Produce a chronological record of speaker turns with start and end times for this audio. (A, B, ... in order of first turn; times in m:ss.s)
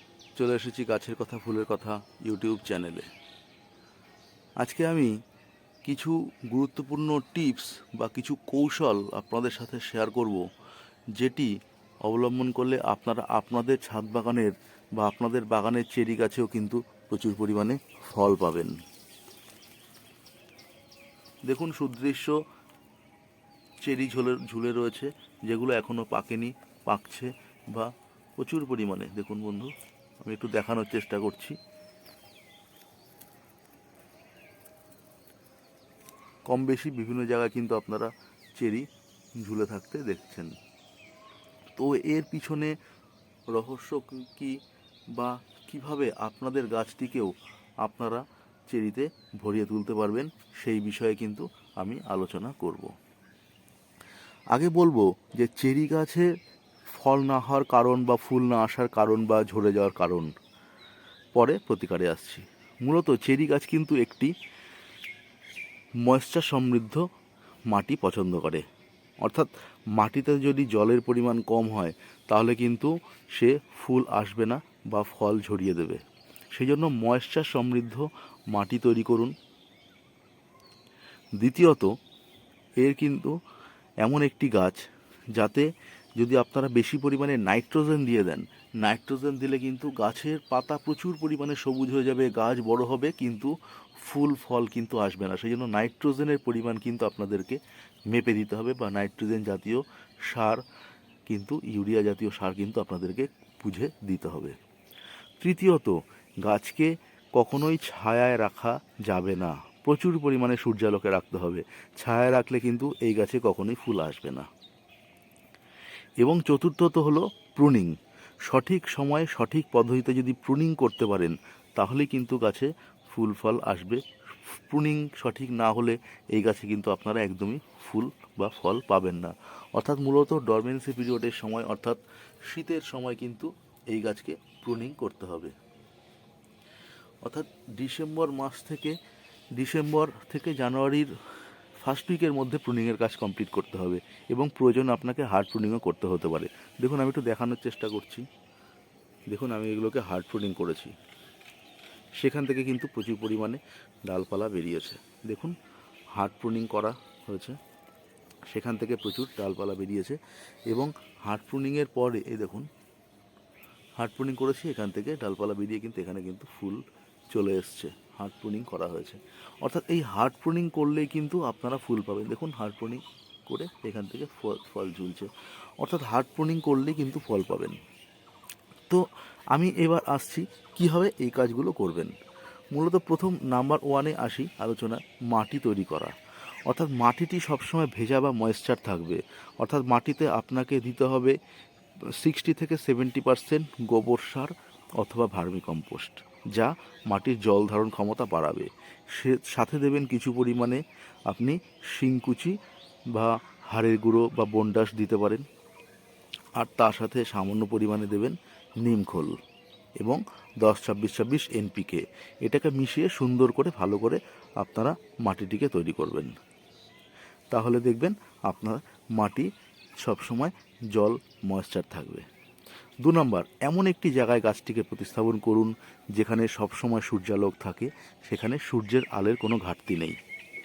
0:00.4-0:03.1 A
0:04.6-0:05.1 A
0:05.8-0:10.4 A
0:11.2-0:11.5 A
0:12.0-0:18.8 A
0:21.4-0:22.4 A
0:23.8-0:29.7 A
0:30.2-0:31.6 A
0:36.5-0:38.9 A
0:39.4-0:40.5 A
0:41.8-0:42.7 A
0:43.5-0:44.6 A
0:45.1-0:52.9 A
0:54.5-0:56.3 A
0:56.9-1:00.3 A
1:01.3-1:04.3 A
1:06.0-1:07.0 A
1:07.7-1:08.6 A
1:09.2-1:16.0 A
1:16.5-1:19.3 A
1:21.4-1:21.9 A
1:22.8-1:23.3 A
1:24.0-1:24.8 A
1:25.3-1:40.6 A
1:41.3-1:44.6 A
1:45.4-1:54.5 A
1:56.2-1:57.9 A
1:58.4-2:15.5 A
2:17.2-2:19.0 A
2:19.6-2:21.1 A
2:21.8-2:28.2 A
2:29.3-2:30.9 A
2:32.2-2:35.6 A
2:36.1-2:37.6 A
2:38.5-2:42.7 A
2:44.0-2:55.3 A
2:55.8-2:57.8 A
2:58.9-3:02.1 A
3:02.7-3:06.1 A
3:06.7-3:11.3 A
3:12.1-3:22.6 A
3:23.1-3:25.4 A
3:26.6-3:29.4 A
3:30.0-3:36.3 A
3:37.5-3:39.5 A
3:40.0-3:42.2 A
3:43.0-3:50.2 A